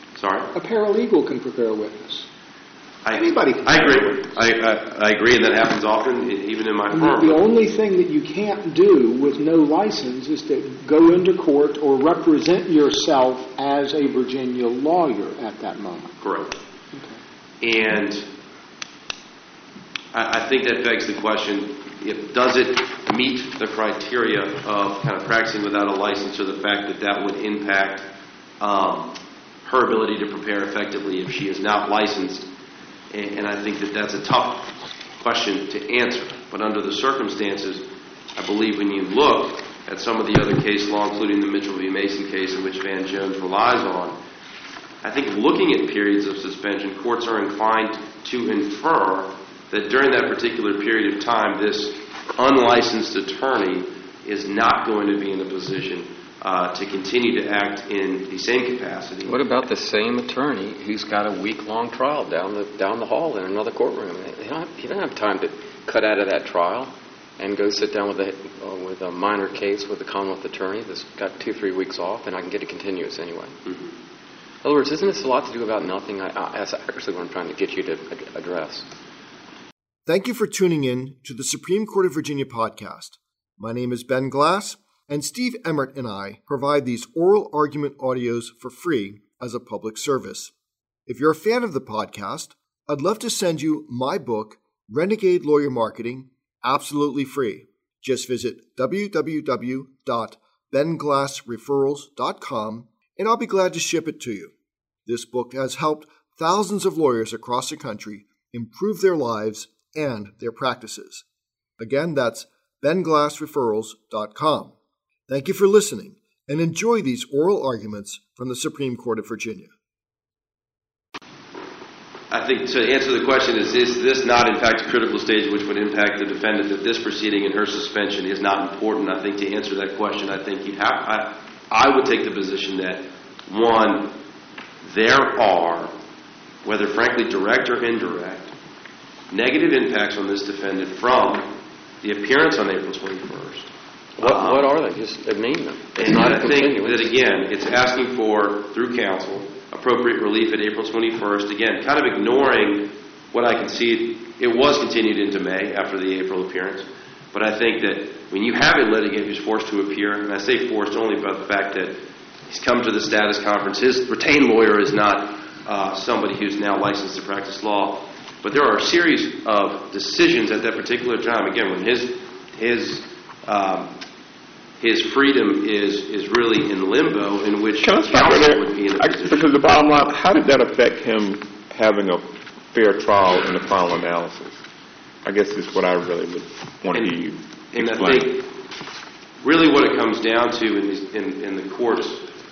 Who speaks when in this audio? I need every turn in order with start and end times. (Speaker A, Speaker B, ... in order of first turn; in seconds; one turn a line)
Speaker A: 0.2-0.5
Speaker B: 0.5-2.3
Speaker A: 3.0-7.4
Speaker B: 3.1-4.4
Speaker B: 6.9-16.2
Speaker A: 16.2-16.6
Speaker A: 17.6-18.2
Speaker A: 20.1-28.1
Speaker A: 28.6-32.5
Speaker A: 33.1-37.8
Speaker A: 38.4-44.2
Speaker A: 45.0-59.4
Speaker C: 59.3-73.5
Speaker A: 73.7-73.9
Speaker C: 74.6-78.9
Speaker D: 80.1-90.5
Speaker D: 91.1-104.5
Speaker D: 105.1-111.2
Speaker D: 111.8-114.7
Speaker D: 115.3-119.7
Speaker A: 122.3-134.1
Speaker A: 134.8-135.9
Speaker A: 136.6-138.5
Speaker A: 139.3-141.5
Speaker A: 142.0-143.7
Speaker C: 144.2-147.1
Speaker A: 144.2-144.7
Speaker A: 146.0-162.0
Speaker A: 162.5-173.9
Speaker A: 174.8-179.4
Speaker E: 177.8-184.6
Speaker E: 185.2-188.3
Speaker A: 187.7-188.5
Speaker A: 189.4-192.2